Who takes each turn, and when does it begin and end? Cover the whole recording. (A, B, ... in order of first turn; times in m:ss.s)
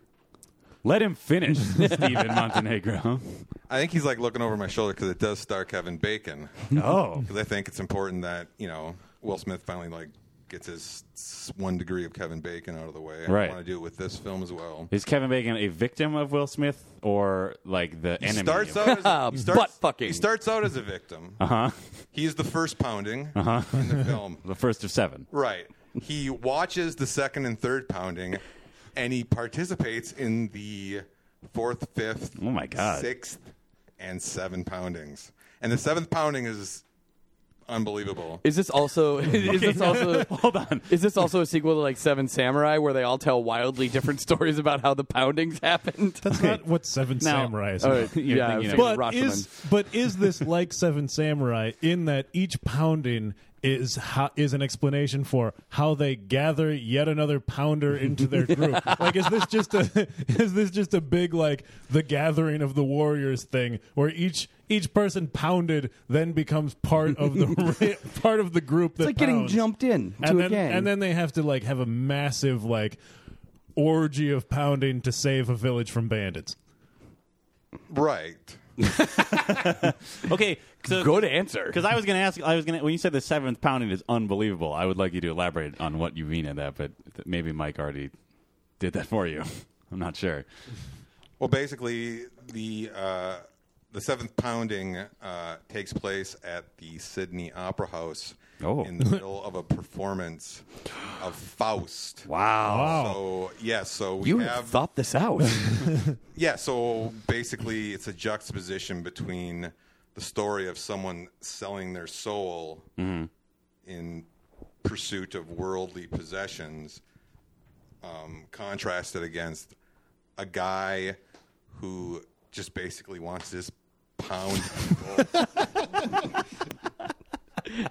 0:00.8-0:03.4 A
0:01.8-0:02.4 B
0:03.7-0:14.9 C
0:06.7-0:07.3 A
0:13.3-0:13.6 A
0:14.9-0:19.0 A
0:18.2-0:21.4 C
0:18.8-0:20.3 B
0:21.4-0:21.9 A
0:22.1-0:24.4 C
0:23.4-0:25.3 A
0:25.3-0:28.4 C
0:29.0-0:33.4 C
0:32.4-0:33.1 A
0:34.0-0:36.8 C
0:37.7-0:38.4 C
0:38.4-0:40.3 B
0:39.3-0:41.2 A
0:40.9-0:46.3 B
0:46.2-1:09.6 D
0:46.3-0:46.6 A
0:47.2-0:49.1 A
0:47.8-0:49.5 B
0:58.5-0:59.4 B
1:09.0-1:10.9 B
1:10.2-1:13.0 D
1:13.8-1:16.6 D
1:17.9-1:18.6 C
1:19.1-1:28.1 A
1:20.9-1:21.8 B
1:28.8-1:30.4 A
1:31.4-1:42.3 C
1:38.6-1:38.9 A
1:42.3-1:43.1 A
1:42.6-1:43.2 D
1:42.8-1:44.8 C
1:44.2-1:45.9 B
1:46.3-1:52.9 C
1:53.0-1:53.3 A
1:53.8-1:54.3 C
1:54.8-1:57.0 C
1:58.0-1:59.8 C
2:00.4-2:01.2 C
2:01.7-2:05.5 C